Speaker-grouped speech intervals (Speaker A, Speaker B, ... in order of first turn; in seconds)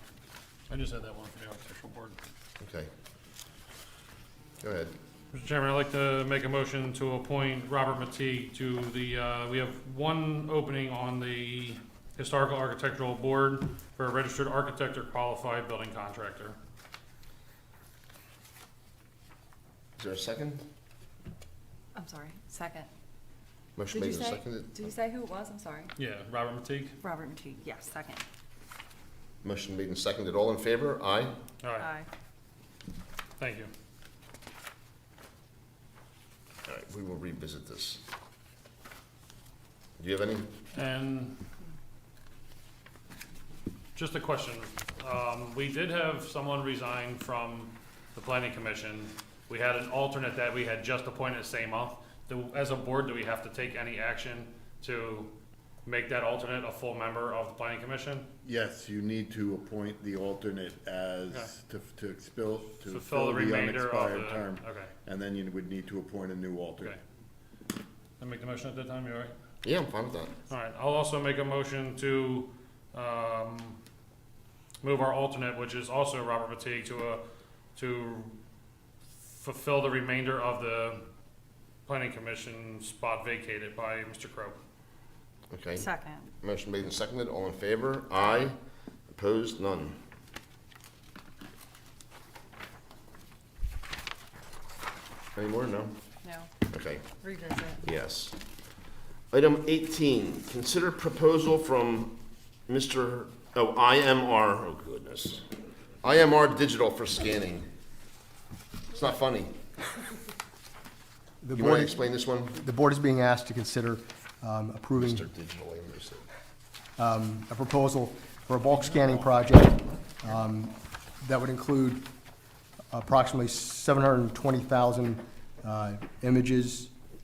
Speaker A: 0.7-2.2, 5.3-16.6, 26.0-27.0, 31.6-31.9, 33.4-33.7, 40.7-41.4, 43.9-55.3, 55.8-58.3, 62.8-64.9, 68.2-69.3, 70.5-73.8, 74.8-77.2, 77.8-78.4, 79.2-81.0, 81.9-84.6
Speaker B: 2.6-2.9, 4.6-4.9, 20.0-20.6, 23.8-24.8, 29.4-31.4, 36.7-38.0, 40.0-40.5, 69.6-70.3, 85.5-85.9, 86.4-88.5, 89.1-90.0, 95.3-96.0, 96.7-97.0, 97.8-98.3, 99.3-105.5, 106.0-107.7, 108.9-109.5, 111.5-112.6, 115.0-116.2
Speaker C: 21.9-22.9, 23.9-25.9, 27.0-28.2, 31.8-32.1, 85.8-86.2, 96.2-96.5, 97.2-97.8
Speaker D: 58.4-66.9
Speaker E: 111.4-115.3, 117.0-122.1, 122.9-126.9